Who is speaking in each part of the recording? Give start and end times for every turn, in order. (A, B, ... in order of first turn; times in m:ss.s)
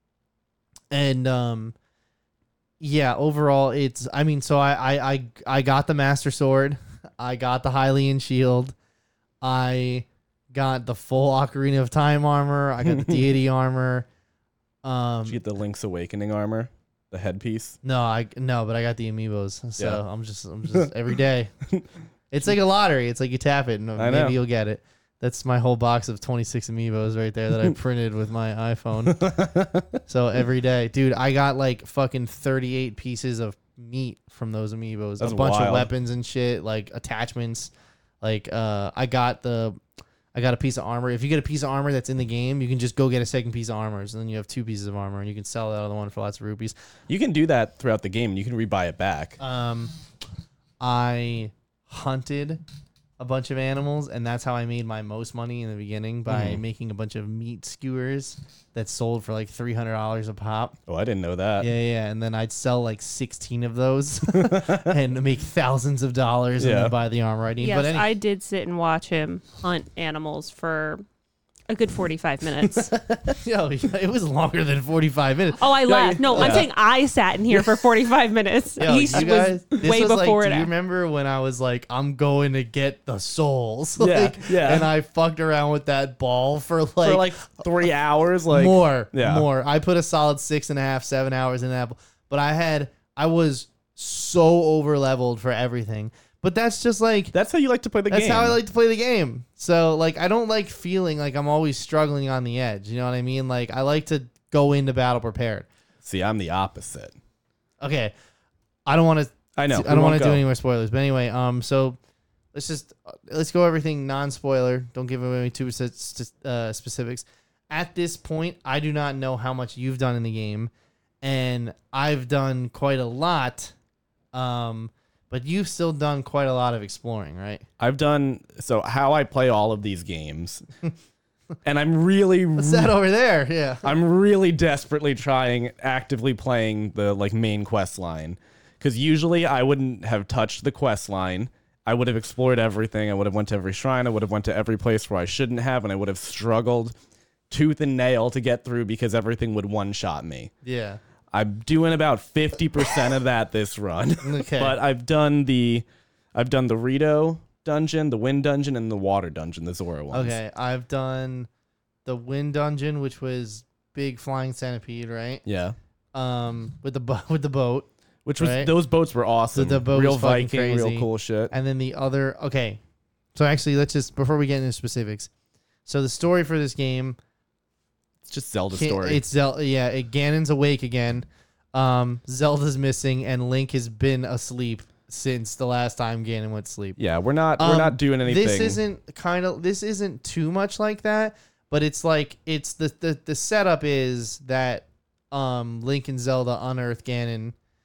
0:00.9-0:01.7 A
0:02.8-0:08.7 A
0:09.4-0:14.1 A
0:12.8-0:13.3 B
0:14.8-0:15.4 A
0:15.2-0:17.8 B
0:17.8-0:21.5 A
0:22.3-0:29.4 A
0:24.0-0:24.4 B
0:29.1-0:30.0 B
0:30.0-0:37.7 A
0:35.2-0:35.9 B
0:38.2-0:39.8 A
0:40.3-0:46.7 A
0:47.1-0:49.4 B
0:49.4-0:49.9 A
0:50.8-0:52.6 A
0:53.2-1:00.8 A
0:56.3-0:56.6 B
1:00.9-1:01.7 B
1:01.6-1:08.1 A
1:04.3-1:05.0 B
1:06.6-1:06.9 B
1:07.6-1:11.0 C
1:11.7-1:12.9 C
1:12.6-1:13.4 B
1:13.3-1:16.7 A
1:15.6-1:20.7 C
1:16.3-1:16.7 B
1:17.5-1:17.8 B
1:18.8-1:27.6 A
1:24.0-1:24.9 B
1:27.0-1:29.4 B
1:28.5-1:37.3 A
1:37.3-1:38.6 B
1:38.1-1:45.7 A
1:46.0-1:47.2 B
1:47.8-1:48.1 A
1:48.8-1:52.0 A
1:49.5-1:50.4 B
1:52.5-2:00.7 A
2:01.2-2:03.7 A
2:04.3-2:07.6 A
2:07.8-2:10.6 B
2:11.6-2:12.9 B
2:12.6-2:13.9 A
2:13.8-2:27.0 B
2:27.5-2:30.5 B
2:30.6-2:31.0 A
2:31.3-2:40.4 B
2:34.2-2:34.8 A
2:40.1-2:41.5 A
2:42.0-2:45.4 A
2:45.4-2:45.8 B
2:46.1-2:47.9 A
2:48.2-2:51.5 B
2:48.4-2:48.7 A
2:49.5-2:52.8 A
2:53.3-2:55.3 A
2:55.8-2:57.2 A
2:58.2-2:59.2 B
2:58.7-3:07.0 A
3:07.0-3:08.8 B
3:07.6-3:17.5 A